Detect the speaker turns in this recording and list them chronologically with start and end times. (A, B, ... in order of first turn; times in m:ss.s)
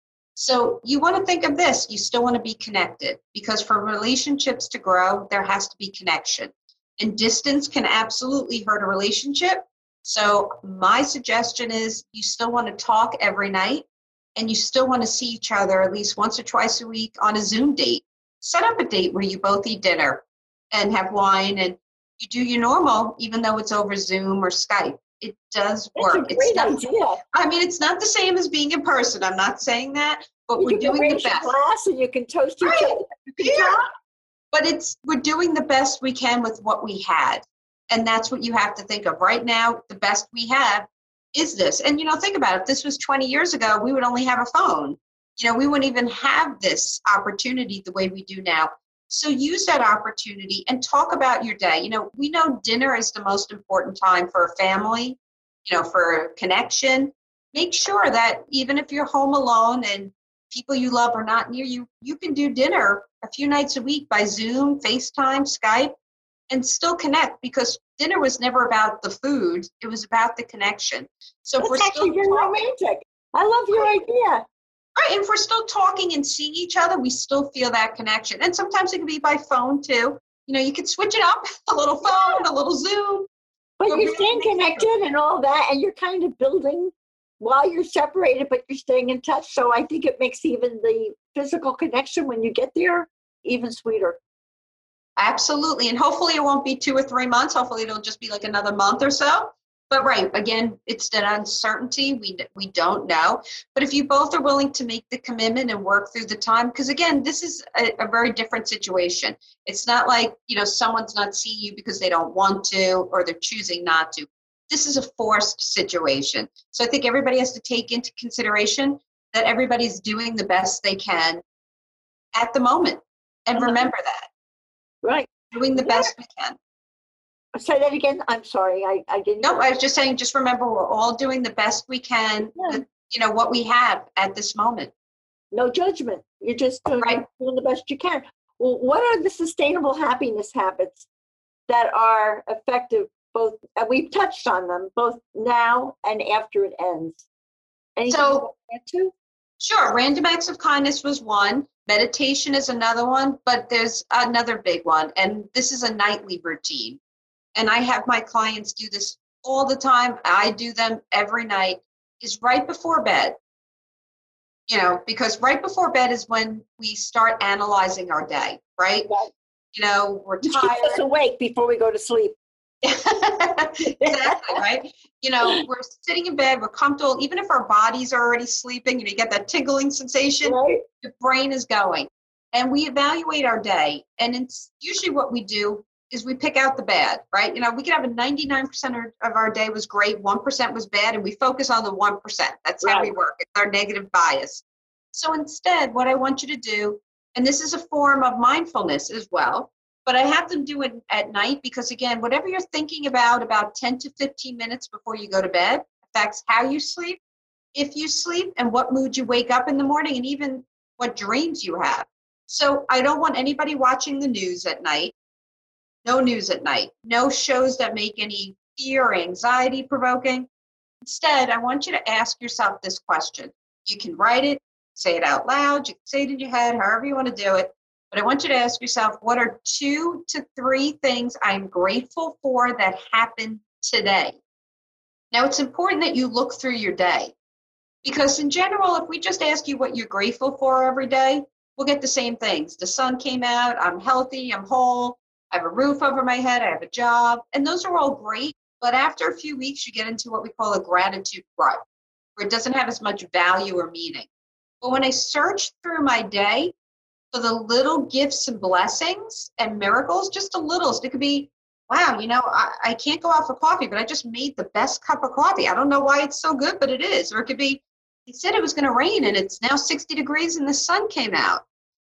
0:00.4-0:26.8 A
0:25.9-0:27.2 B
0:27.3-0:31.5 A
0:30.6-0:33.9 B
0:32.6-0:33.8 A
0:34.5-1:05.9 A
1:06.5-1:12.6 A
1:11.6-1:14.4 B
1:15.0-1:23.3 A
1:23.8-1:34.2 B
1:23.9-1:24.8 A
1:35.2-2:01.4 A
2:02.3-2:04.3 A
2:03.6-2:03.9 B
2:05.0-2:06.1 B
2:05.5-2:06.6 A
2:07.6-2:09.6 B
2:09.4-2:14.9 A
2:12.6-2:12.8 B
2:15.5-2:21.0 B
2:21.7-2:27.2 B
2:28.0-2:29.1 B
2:28.1-2:28.4 A
2:29.6-2:37.0 A
2:37.5-2:43.4 A
2:44.7-2:49.1 A
2:49.7-2:51.0 A
2:50.4-2:52.4 B
2:52.8-3:27.2 A
2:54.0-2:54.6 B
3:00.4-3:00.8 B
3:12.8-3:13.1 B
3:27.7-3:35.1 A
3:36.0-3:40.5 A
3:41.0-3:54.4 A
3:55.3-3:57.3 A
3:58.0-4:11.8 A
4:12.4-4:14.3 A
4:14.8-4:16.7 A
4:17.3-4:31.6 A